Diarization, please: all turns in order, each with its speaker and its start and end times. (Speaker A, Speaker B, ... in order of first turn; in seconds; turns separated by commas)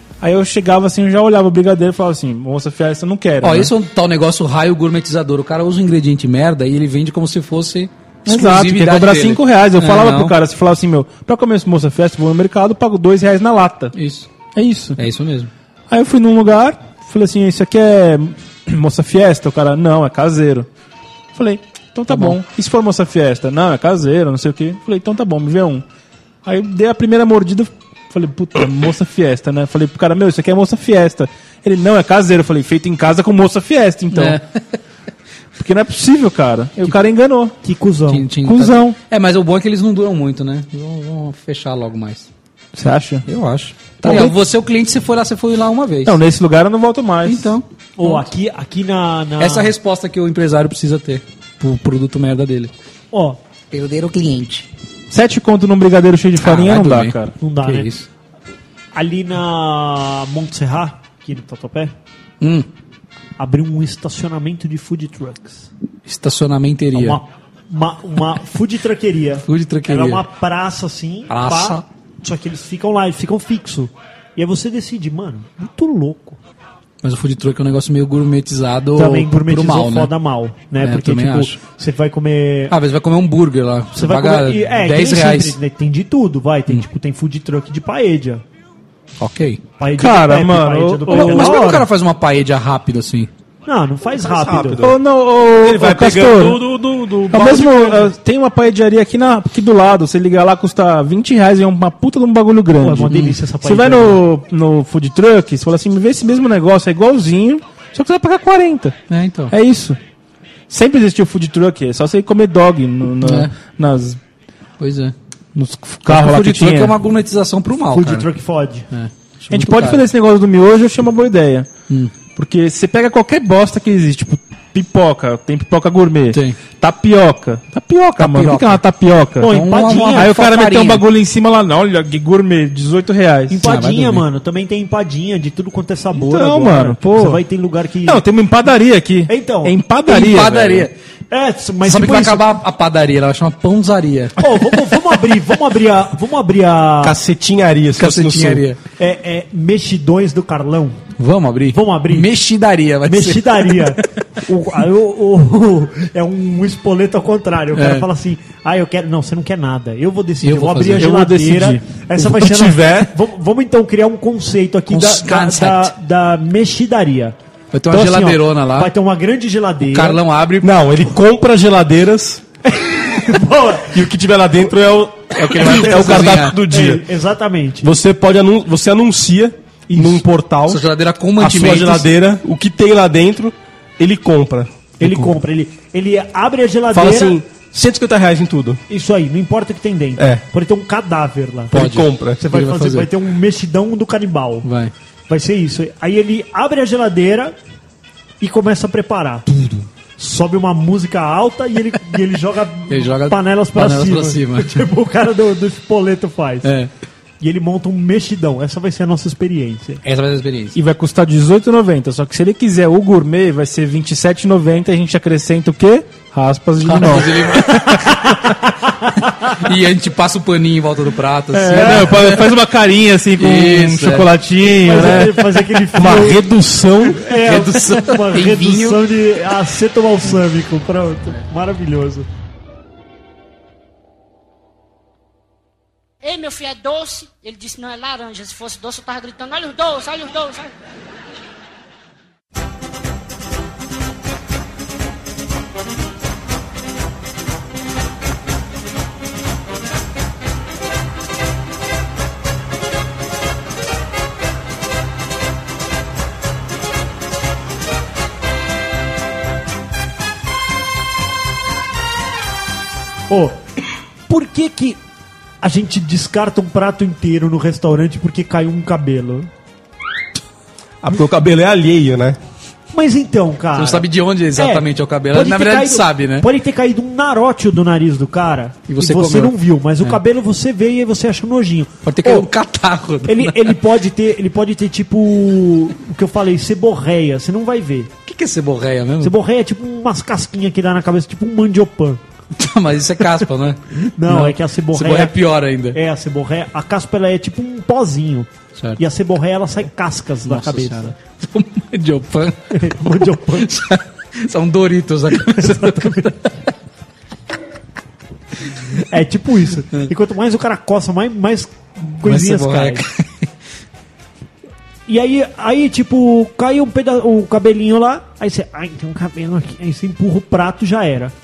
Speaker A: 0.2-3.7, Speaker B: 3.4-10.3, Speaker A: 8.2-13.9, Speaker B: 13.9-14.3, Speaker A: 14.5-15.0, Speaker B: 14.9-15.5, Speaker A: 15.9-20.7, Speaker A: 21.3-25.8, Speaker B: 22.1-22.4, Speaker A: 26.4-34.4, Speaker B: 34.1-34.6, Speaker A: 35.5-37.5, Speaker C: 37.6-38.3, Speaker B: 38.1-42.3, Speaker A: 38.4-39.0, Speaker A: 42.7-43.2, Speaker B: 43.2-46.2, Speaker A: 44.0-44.4, Speaker A: 46.0-47.5, Speaker B: 47.2-48.2, Speaker C: 48.0-49.7, Speaker B: 49.4-52.7, Speaker C: 53.1-53.4, Speaker B: 53.7-54.7, Speaker A: 55.1-57.3, Speaker B: 56.4-58.1, Speaker C: 57.4-57.9, Speaker C: 58.9-61.9, Speaker B: 62.4-62.7, Speaker C: 63.4-65.7, Speaker B: 66.0-67.2, Speaker C: 66.9-76.4, Speaker B: 69.4-70.2, Speaker B: 71.3-71.8, Speaker B: 77.0-80.1, Speaker C: 78.9-82.8, Speaker B: 80.8-81.6, Speaker B: 82.7-85.6, Speaker C: 83.9-88.4, Speaker B: 89.2-89.6, Speaker C: 89.8-91.9, Speaker A: 90.0-91.7, Speaker B: 91.1-93.3, Speaker C: 93.7-94.8, Speaker D: 94.2-95.0, Speaker A: 94.8-96.6, Speaker D: 95.5-98.1, Speaker A: 97.3-109.0, Speaker C: 102.8-104.2, Speaker B: 103.1-103.3, Speaker B: 109.1-109.5, Speaker A: 109.5-110.0, Speaker A: 110.7-114.2, Speaker B: 113.2-113.5, Speaker B: 114.8-115.1, Speaker A: 115.5-116.9, Speaker B: 116.1-118.3, Speaker C: 117.9-118.8, Speaker B: 118.9-120.0, Speaker A: 119.5-121.7, Speaker A: 122.3-129.5, Speaker B: 126.3-126.6, Speaker B: 128.2-128.8, Speaker C: 129.4-130.3, Speaker B: 129.4-131.0, Speaker A: 130.1-133.6, Speaker C: 133.5-138.2, Speaker B: 133.6-134.2, Speaker A: 136.1-137.4, Speaker A: 138.0-140.9, Speaker C: 139.3-139.8, Speaker B: 140.1-140.9, Speaker C: 141.3-142.5, Speaker B: 141.8-144.5, Speaker C: 144.4-147.2, Speaker D: 147.0-148.6, Speaker B: 148.0-148.8, Speaker C: 149.0-151.0, Speaker B: 151.2-154.1, Speaker C: 151.7-152.3, Speaker C: 153.1-167.3, Speaker B: 157.7-158.1, Speaker B: 160.4-161.1, Speaker A: 161.0-161.8, Speaker D: 162.2-163.1, Speaker B: 164.9-165.9, Speaker B: 167.7-168.9, Speaker C: 167.9-170.2, Speaker B: 169.9-170.7, Speaker D: 170.6-172.4, Speaker C: 172.6-174.0, Speaker D: 173.9-177.0, Speaker B: 175.3-176.6, Speaker C: 176.0-177.9, Speaker D: 177.8-180.8, Speaker B: 180.7-182.1, Speaker D: 181.4-184.8, Speaker C: 185.0-187.4, Speaker B: 185.0-185.3, Speaker D: 186.9-188.8, Speaker C: 188.9-191.7, Speaker D: 190.2-190.4, Speaker D: 191.7-192.4, Speaker B: 191.7-193.1, Speaker C: 192.4-194.7, Speaker B: 194.6-194.9, Speaker C: 195.3-197.6, Speaker C: 198.4-206.7, Speaker B: 202.9-204.9, Speaker B: 206.6-206.9, Speaker C: 207.4-210.0, Speaker B: 210.0-210.8, Speaker A: 210.8-218.2, Speaker B: 216.8-218.2, Speaker C: 218.1-219.6, Speaker B: 219.4-222.6, Speaker A: 221.5-225.6, Speaker C: 221.7-222.1, Speaker B: 223.4-224.3, Speaker C: 224.8-226.5, Speaker D: 225.9-227.2, Speaker C: 227.0-232.3, Speaker B: 227.4-229.0, Speaker E: 236.2-240.7, Speaker C: 263.3-263.6, Speaker C: 264.3-265.0, Speaker C: 265.6-269.5, Speaker D: 271.0-272.4, Speaker C: 272.9-282.5, Speaker B: 273.8-276.5, Speaker B: 278.9-280.2, Speaker B: 282.0-283.8, Speaker C: 283.2-288.1, Speaker B: 288.2-289.3, Speaker C: 289.2-292.2, Speaker B: 292.5-296.0, Speaker C: 293.9-295.4, Speaker C: 295.9-301.1, Speaker B: 300.4-306.5, Speaker C: 302.7-303.7, Speaker C: 305.3-306.3, Speaker C: 308.9-313.1, Speaker B: 312.2-313.5, Speaker C: 315.1-321.3